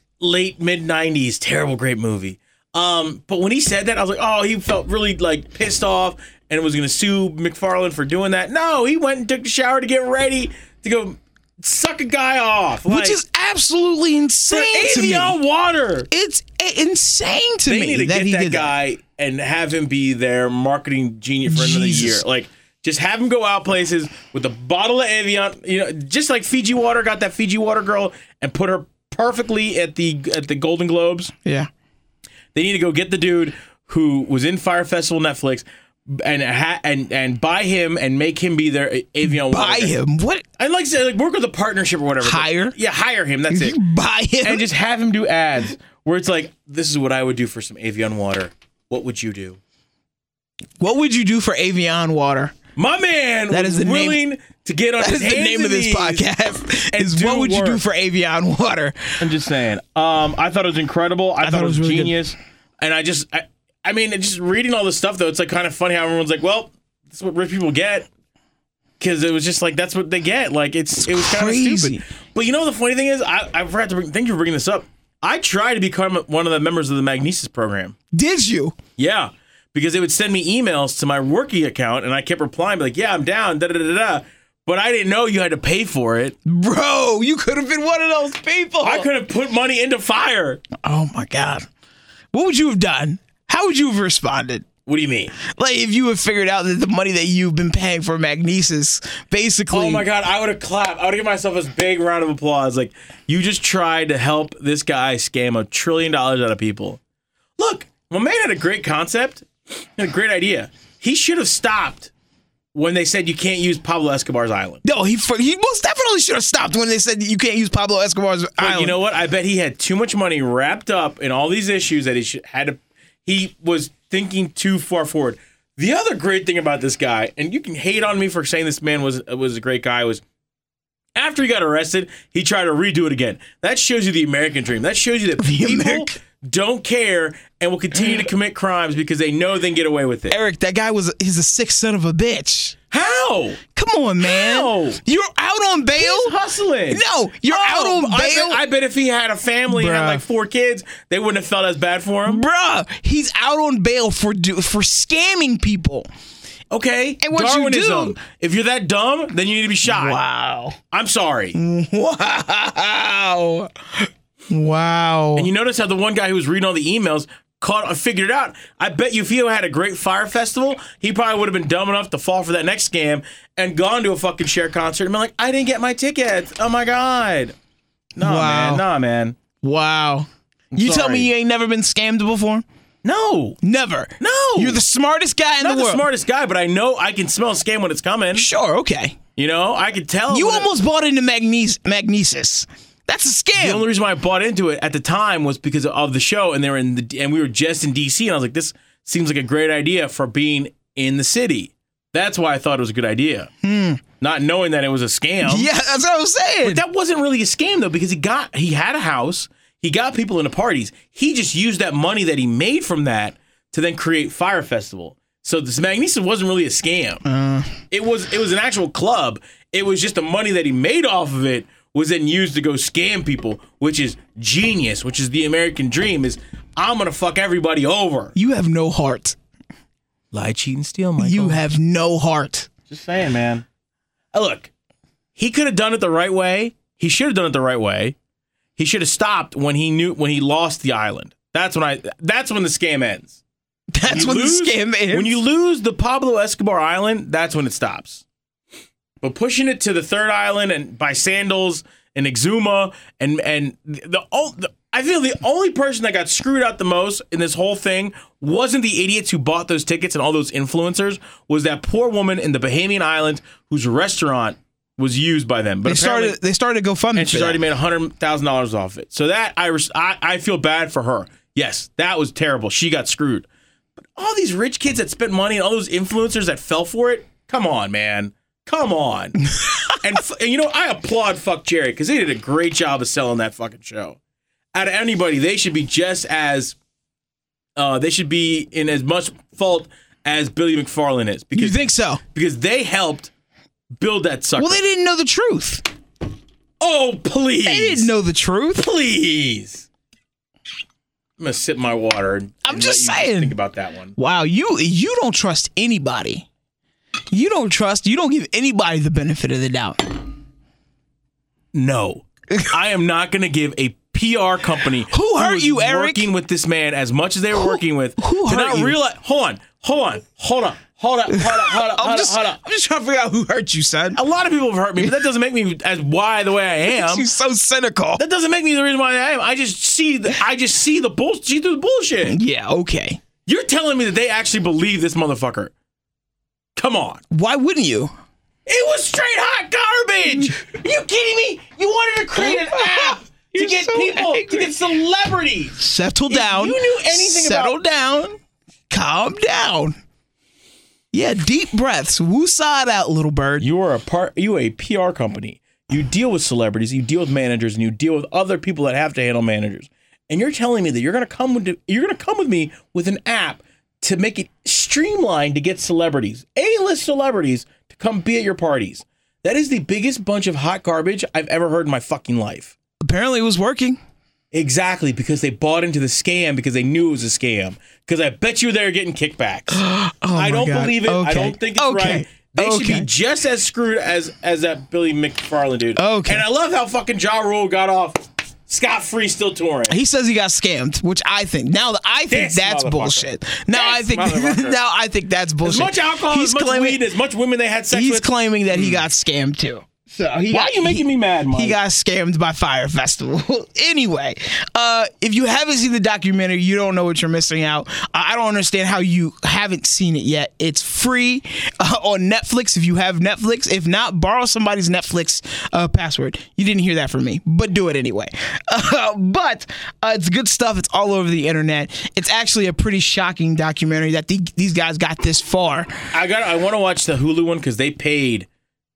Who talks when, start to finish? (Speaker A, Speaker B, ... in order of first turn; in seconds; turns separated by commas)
Speaker A: 0.2-13.2, Speaker B: 12.9-15.4, Speaker A: 14.5-16.1, Speaker B: 16.1-18.7, Speaker A: 17.7-31.3, Speaker B: 21.4-22.2, Speaker B: 31.4-31.7, Speaker A: 32.5-39.9, Speaker B: 39.3-40.4, Speaker A: 40.6-43.8, Speaker B: 42.2-42.8, Speaker B: 43.5-44.7, Speaker A: 44.4-49.6, Speaker B: 50.8-52.5, Speaker A: 52.8-56.3, Speaker B: 53.5-54.2, Speaker B: 55.0-59.3, Speaker A: 56.9-57.8, Speaker A: 59.2-68.1, Speaker B: 61.4-62.2, Speaker A: 69.0-77.9, Speaker B: 71.1-72.0, Speaker B: 78.1-78.8, Speaker A: 79.0-86.3, Speaker B: 86.4-89.1, Speaker A: 88.8-90.6, Speaker B: 90.8-91.7, Speaker B: 92.3-94.7, Speaker A: 94.9-95.3, Speaker B: 95.4-100.0, Speaker A: 99.7-107.0, Speaker A: 107.6-109.5, Speaker A: 110.0-112.1, Speaker A: 112.7-114.8, Speaker B: 114.8-119.0, Speaker A: 118.6-130.2, Speaker A: 131.2-140.4, Speaker B: 135.4-136.2, Speaker B: 140.3-142.8, Speaker A: 142.9-143.6, Speaker B: 143.7-146.3, Speaker A: 144.2-145.0, Speaker A: 145.9-152.4, Speaker B: 146.9-148.6, Speaker B: 149.7-150.2, Speaker B: 152.3-156.1, Speaker A: 156.7-160.2, Speaker B: 157.2-158.2, Speaker B: 159.8-160.8, Speaker A: 160.9-161.6, Speaker B: 161.6-165.5, Speaker A: 165.4-177.6, Speaker A: 178.2-179.4, Speaker B: 178.2-178.8, Speaker B: 179.6-182.6, Speaker A: 180.7-181.3, Speaker A: 183.0-183.6, Speaker B: 183.6-186.0, Speaker A: 184.2-184.8, Speaker A: 185.6-188.5, Speaker B: 188.3-189.2, Speaker A: 189.4-190.7, Speaker B: 190.3-193.9, Speaker A: 193.6-203.5, Speaker B: 203.6-204.0, Speaker A: 204.2-205.7, Speaker B: 205.4-206.8, Speaker A: 206.6-217.2, Speaker B: 217.3-217.8, Speaker A: 217.9-228.3, Speaker B: 228.3-229.4, Speaker A: 230.3-231.6, Speaker B: 231.2-232.7, Speaker A: 232.9-233.6, Speaker A: 234.3-234.7, Speaker A: 235.4-238.1, Speaker A: 238.8-243.4, Speaker B: 243.9-245.4, Speaker A: 244.1-248.2, Speaker A: 249.2-266.4, Speaker B: 265.9-267.6, Speaker A: 267.1-273.5, Speaker A: 274.0-279.4, Speaker A: 279.9-284.2, Speaker A: 284.7-286.8, Speaker A: 287.8-293.3, Speaker B: 291.6-292.2, Speaker A: 294.0-294.8, Speaker B: 294.6-295.9, Speaker A: 296.8-298.1, Speaker B: 297.6-298.9, Speaker A: 298.8-299.9, Speaker A: 301.4-304.1, Speaker B: 302.6-303.6, Speaker B: 304.2-306.5, Speaker B: 307.3-310.3, Speaker A: 311.7-322.6, Speaker B: 315.1-316.3, Speaker B: 317.5-318.9, Speaker B: 321.3-324.2, Speaker A: 324.1-327.3, Speaker B: 326.9-328.2, Speaker A: 328.2-332.4, Speaker B: 332.3-333.2, Speaker A: 333.4-335.7, Speaker A: 336.8-337.2, Speaker B: 337.3-338.1, Speaker A: 338.7-347.8, Speaker B: 342.4-344.7, Speaker B: 345.8-348.4, Speaker B: 348.9-349.9, Speaker B: 351.1-353.7, Speaker A: 353.6-372.8, Speaker B: 373.0-374.0, Speaker A: 374.5-379.8, Speaker B: 379.7-383.1, Speaker A: 380.4-389.9, Speaker B: 385.9-386.4, Speaker B: 389.9-397.0, Speaker A: 392.3-394.8, Speaker A: 395.6-399.0, Speaker B: 397.9-425.9, Speaker A: 400.5-401.8, Speaker A: 426.1-428.5